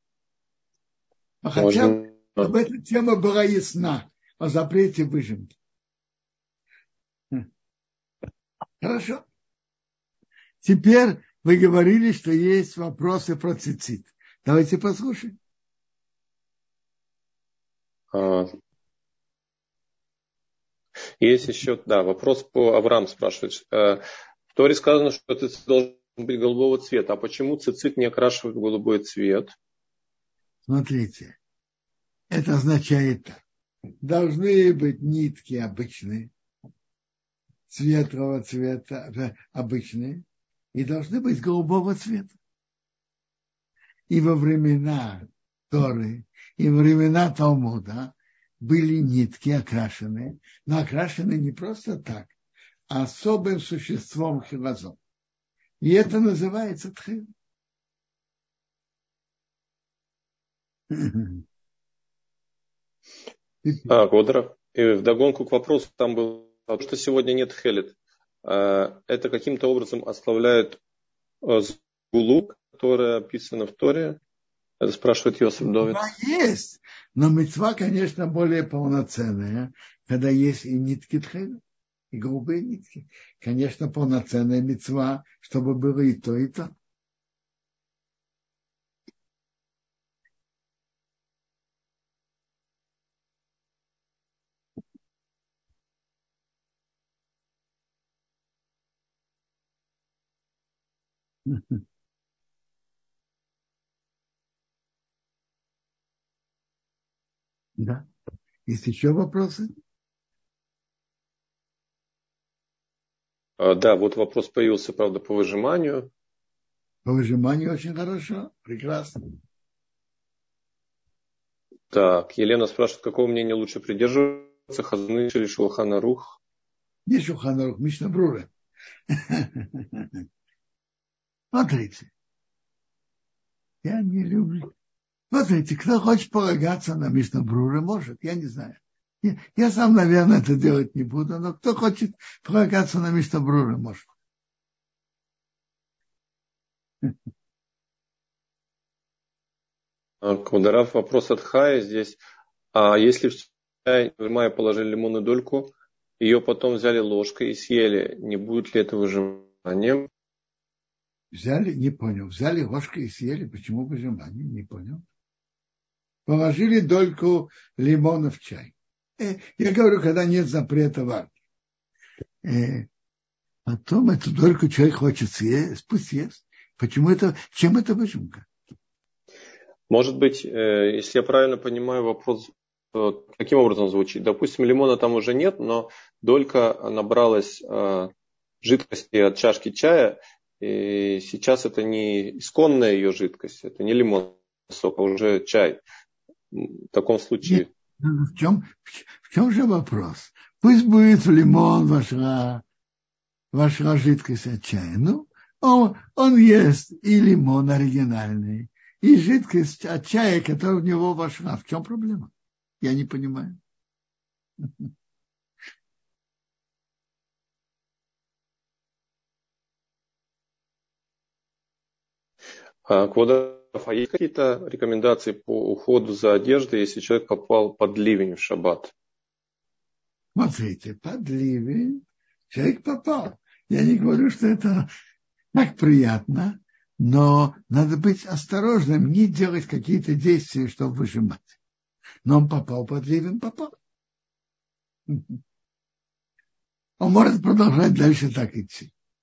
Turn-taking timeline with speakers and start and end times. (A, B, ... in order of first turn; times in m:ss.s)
0:01.4-0:05.5 A
0:01.6-0:02.5 B
0:08.8-0:09.2 A
0:10.6-0:15.4 A
0:18.1-0:18.5 B
0:21.2-0:29.5 B
0:30.7-0:31.4 A
0:32.3-0:33.4 A
0:34.0-0:36.3 A
0:37.7-0:42.4 A
0:44.1-0:52.3 A
0:52.9-0:55.0 A
0:55.8-0:57.3 A
1:00.9-1:01.4 A
1:03.8-1:10.8 B
1:11.4-1:14.2 B
1:14.8-1:16.0 B
1:15.8-1:21.6 A
1:22.1-1:26.7 A
1:41.4-1:41.8 A
1:47.8-1:48.0 A
1:48.6-1:49.7 A
1:53.6-1:56.1 B
1:57.0-1:59.2 A
2:01.9-2:06.4 B
2:07.0-2:08.5 A
2:09.1-2:10.1 A
2:11.5-2:12.1 A
2:13.8-2:14.7 A
2:15.3-2:24.1 A
2:30.2-2:32.2 B
2:32.7-2:40.1 B
2:41.3-2:45.0 A
2:46.3-2:51.3 A
2:52.4-2:52.9 A
2:53.6-2:58.5 A
2:59.9-3:08.1 B
3:08.6-3:15.8 B
3:16.5-3:17.7 B
3:17.4-3:22.6 A
3:23.5-3:33.6 A
3:42.8-3:48.9 B
3:50.3-3:54.9 A
3:55.5-4:01.6 A
4:02.2-4:03.7 A
4:05.1-4:05.4 A
4:07.0-4:08.9 A